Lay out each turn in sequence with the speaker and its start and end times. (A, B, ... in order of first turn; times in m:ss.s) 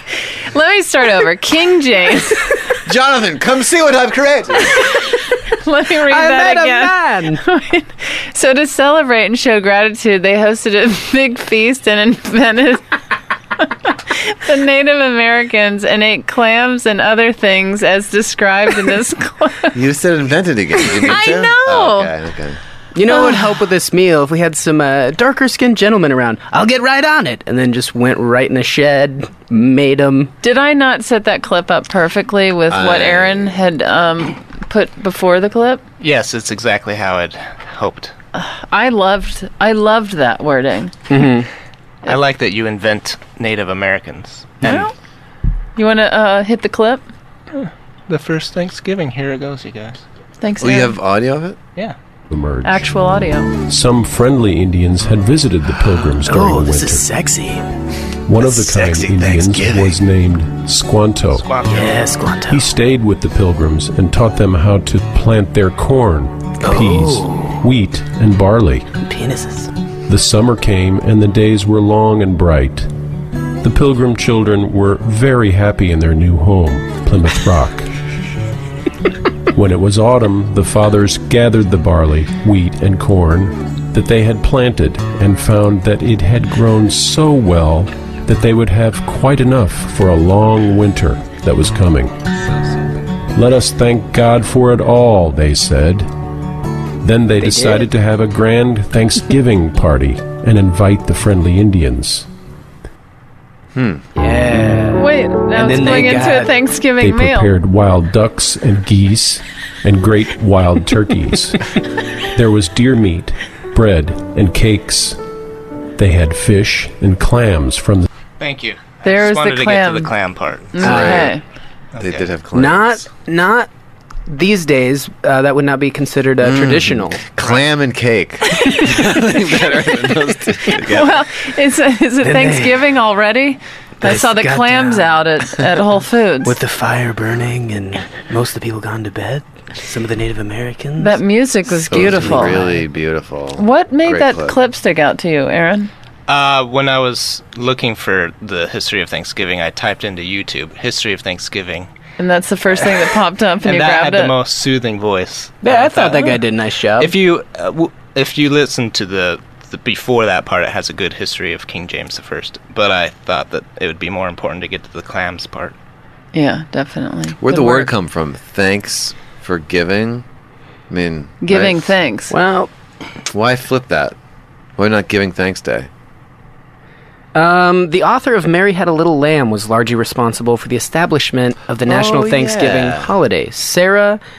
0:00.5-0:02.6 A
0:02.8-0:04.9 B
0:04.9-0:12.8 A
0:06.1-0:07.4 C
0:13.6-0:19.7 A
0:19.7-0:22.6 B
0:21.0-0:22.1 A
0:22.9-0:30.3 C
0:23.1-0:23.4 A
0:30.4-0:35.8 A
0:32.7-0:33.6 B
0:36.0-0:38.1 D
0:38.3-0:40.9 A
0:41.1-0:41.5 C
0:42.0-0:44.8 D
0:44.6-0:44.9 A
0:45.8-0:47.0 A
0:47.5-0:50.0 D
0:50.4-0:51.0 A
0:50.6-0:51.6 B
0:52.3-0:52.9 E
0:52.6-0:53.5 A
0:53.6-0:57.1 E
0:56.2-0:57.7 C
0:58.2-1:01.5 E
0:58.4-0:59.6 C
0:58.7-0:59.8 B
1:01.4-1:02.0 D
1:01.7-1:02.7 C
1:02.5-1:08.9 E
1:06.6-1:07.6 C
1:09.0-1:09.7 C
1:10.1-1:12.9 E
1:13.6-1:17.9 E
1:19.5-1:32.2 E
1:33.3-1:36.1 E
1:37.0-1:42.3 E
1:37.4-1:37.9 C
1:43.7-1:44.0 B
1:44.1-1:46.5 C
1:44.9-1:47.5 A
1:47.0-1:51.8 E
1:52.3-1:55.2 E
1:56.0-1:58.1 E
1:58.4-2:01.3 D
1:59.0-2:00.1 A
2:00.7-2:01.4 A
2:00.8-2:01.3 B
2:00.9-2:01.2 C
2:01.9-2:02.3 D
2:02.0-2:03.0 B
2:02.5-2:03.7 C
2:04.3-2:07.2 C
2:06.4-2:11.2 B
2:08.5-2:09.0 A
2:10.7-2:16.6 A
2:12.2-2:12.8 C
2:14.0-2:15.2 C
2:16.4-2:21.2 C
2:21.0-2:22.8 A
2:21.9-2:24.6 B
2:21.9-2:22.6 C
2:23.6-2:25.9 A
2:26.3-2:31.9 D
2:32.2-2:34.3 A
2:33.6-2:36.4 D
2:35.6-2:37.2 C
2:37.0-2:45.7 D
2:46.3-2:47.9 A
2:47.4-2:50.2 B
2:50.9-2:51.9 B
2:51.4-2:52.3 A
2:52.3-2:52.7 C
2:53.3-2:54.1 B
2:54.8-2:55.9 B
2:57.3-3:04.2 C
3:01.8-3:03.1 B